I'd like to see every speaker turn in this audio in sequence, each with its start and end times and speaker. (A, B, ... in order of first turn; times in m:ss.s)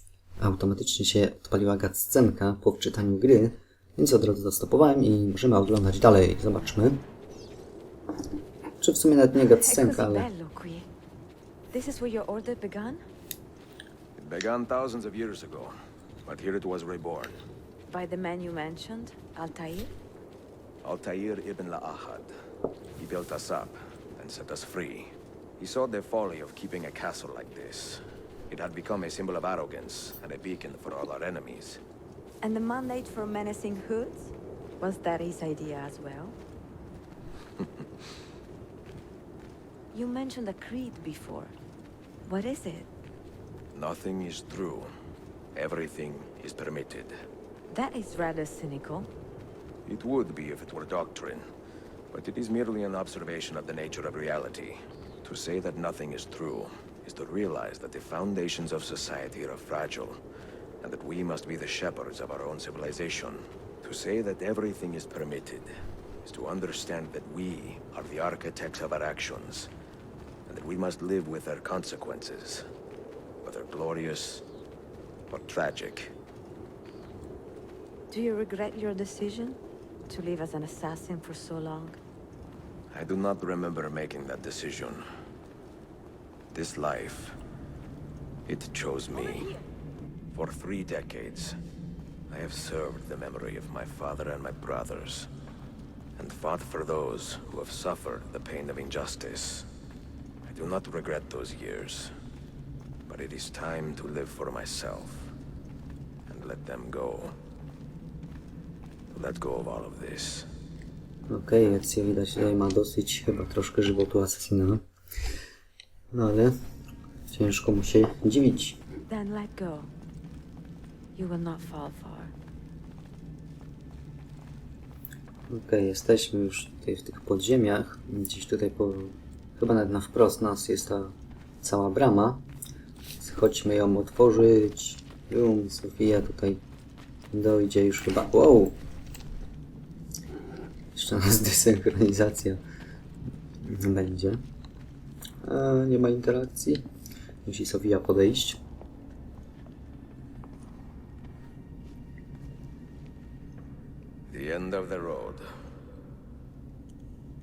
0:00.4-0:07.0 A
0:08.8-0:10.3 A
0:09.6-0:10.9 B
0:11.7-0:13.0 B
0:14.2-0:15.7 C
0:16.2-0:17.4 C
0:17.9-0:19.9 B
0:20.8-0:22.3 C
0:23.0-0:31.8 C
0:32.4-0:36.4 B
0:39.9-0:41.5 B
0:42.2-0:42.9 B
0:43.7-0:44.9 C
0:45.5-0:47.1 C
0:47.7-0:49.1 B
0:49.8-0:51.4 C
0:52.1-1:00.2 C
1:00.8-1:05.7 C
1:06.2-1:09.7 C
1:10.5-1:12.6 C
1:13.4-1:14.4 C
1:15.3-1:16.1 C
1:18.1-1:19.6 B
1:20.1-1:22.0 B
1:22.9-1:25.0 C
1:26.5-1:27.4 C
1:28.5-1:29.6 C
1:30.3-1:31.6 C
1:32.3-1:35.3 C
1:36.2-1:39.7 C
1:40.4-1:42.1 C
1:43.1-1:45.3 C
1:46.3-1:47.3 C
1:49.1-1:50.5 C
1:51.3-1:54.8 A
1:56.1-1:56.5 A
1:57.3-1:58.8 A
1:59.1-1:59.9 B
2:01.2-2:02.3 B
2:05.5-2:12.4 A
2:13.2-2:16.6 A
2:17.3-2:18.7 A
2:20.9-2:22.6 A
2:23.6-2:24.4 A
2:25.4-2:26.8 A
2:27.4-2:28.6 A
2:34.3-2:35.4 C